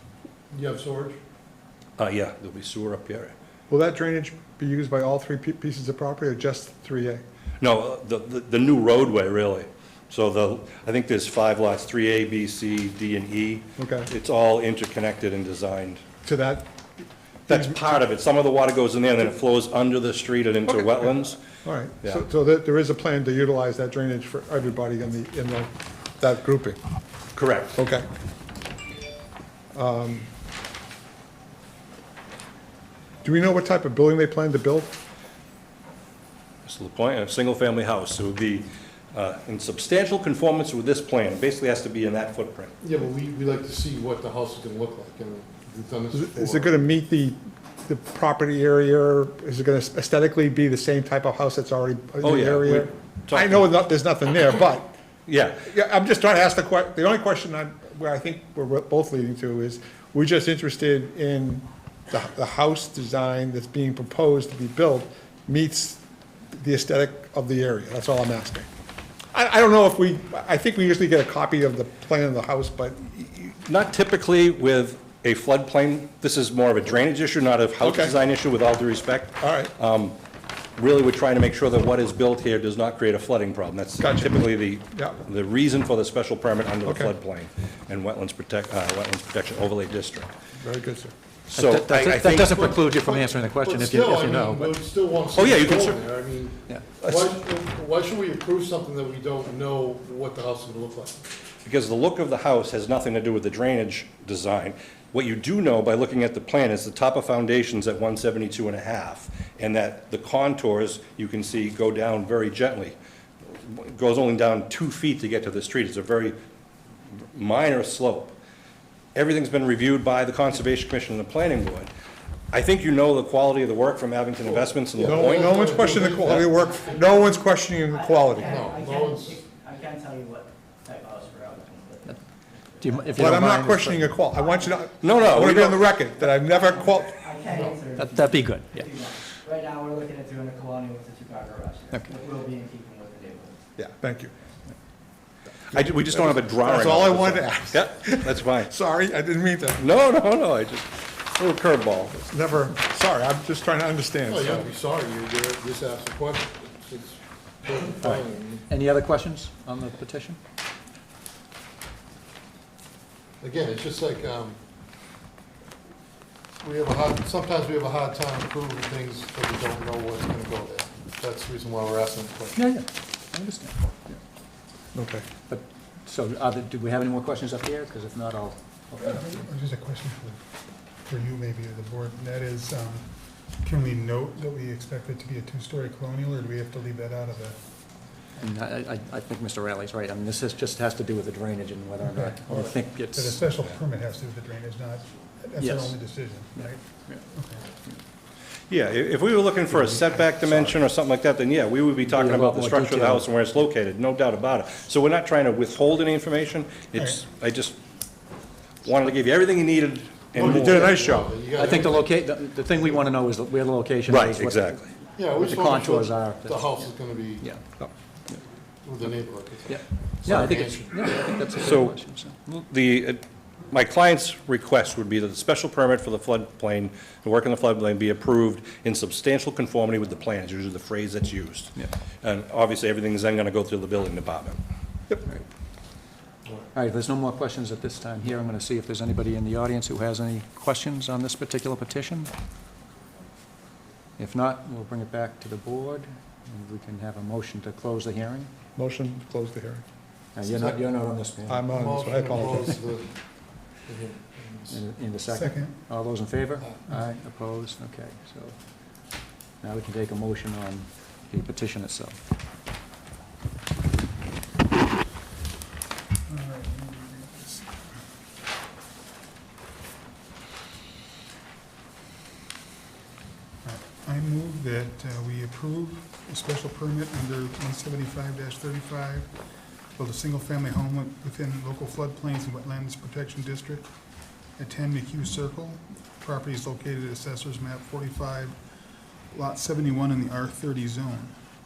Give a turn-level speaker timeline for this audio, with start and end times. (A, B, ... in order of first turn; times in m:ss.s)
0:00.5-0:01.2 A
0:02.0-0:03.3 B
0:03.7-0:07.2 C
0:07.6-0:16.0 B
0:13.8-0:14.1 C
0:16.2-0:16.7 C
0:17.5-0:18.0 C
0:17.5-0:21.4 B
0:21.5-0:26.8 C
0:27.3-0:27.8 B
0:27.7-0:28.0 C
0:29.7-0:30.3 C
0:33.2-0:34.9 C
0:36.6-0:42.7 B
0:42.8-0:46.7 A
0:46.1-0:54.9 C
0:52.2-0:53.7 B
0:55.3-0:55.7 B
0:55.6-1:06.0 C
1:06.5-1:08.7 C
1:09.3-1:13.5 C
1:13.6-1:20.2 B
1:17.8-1:18.1 C
1:19.4-1:19.7 C
1:20.8-1:30.3 B
1:24.0-1:25.2 C
1:26.8-1:27.1 C
1:30.6-1:31.1 C
1:31.5-1:34.8 D
1:31.5-1:32.7 B
1:32.6-1:41.2 A
1:35.3-1:36.0 B
1:37.0-1:37.4 B
1:41.6-1:56.4 B
1:57.3-1:58.3 B
1:59.1-2:01.9 B
2:02.5-2:06.3 B
2:04.4-2:06.9 A
2:05.0-2:08.6 C
2:06.3-2:13.5 E
2:08.5-2:09.4 A
2:12.8-2:14.2 D
2:13.2-2:17.2 C
2:14.3-2:15.4 E
2:15.0-2:16.0 B
2:16.2-2:23.6 E
2:17.5-2:17.8 A
2:17.9-2:18.9 D
2:23.8-2:24.3 C
2:25.7-2:28.7 B
2:25.7-2:29.8 C
2:29.8-2:32.3 B
2:32.3-2:34.7 C
2:34.3-2:38.6 A
2:38.0-2:40.4 D
2:43.4-2:44.6 A
2:46.6-2:52.6 A
2:52.5-2:54.2 D
2:55.0-2:55.2 C
2:55.5-2:59.4 D
2:59.0-3:00.4 F
3:01.0-3:07.6 F
3:08.4-3:13.5 D
3:12.0-3:12.6 F
3:13.1-3:17.7 F
3:15.6-3:16.0 D
3:16.6-3:17.2 D
3:18.7-3:27.8 B
3:22.1-3:23.3 D
3:27.0-3:27.2 F
3:28.8-3:31.0 B
3:30.3-3:32.1 A
3:30.4-3:31.3 C
3:30.7-3:31.0 D
3:31.5-3:36.9 D
3:34.1-3:34.9 B
3:35.2-3:37.4 A
3:37.4-3:37.8 D
3:38.8-3:41.0 A
3:39.7-3:42.5 D
3:41.6-3:54.6 B
3:56.7-4:02.3 D
4:04.2-4:08.5 D
4:08.8-4:09.8 C
4:10.4-4:11.8 D
4:10.4-4:10.9 A
4:11.4-4:12.7 C
4:11.7-4:13.1 A
4:13.7-4:14.8 A
4:14.7-4:18.6 D
4:15.4-4:15.8 F
4:19.6-4:22.2 D
4:26.3-4:27.9 F
4:33.6-4:39.3 F
4:39.9-4:43.9 F
4:44.4-4:48.6 F
4:49.3-4:51.4 F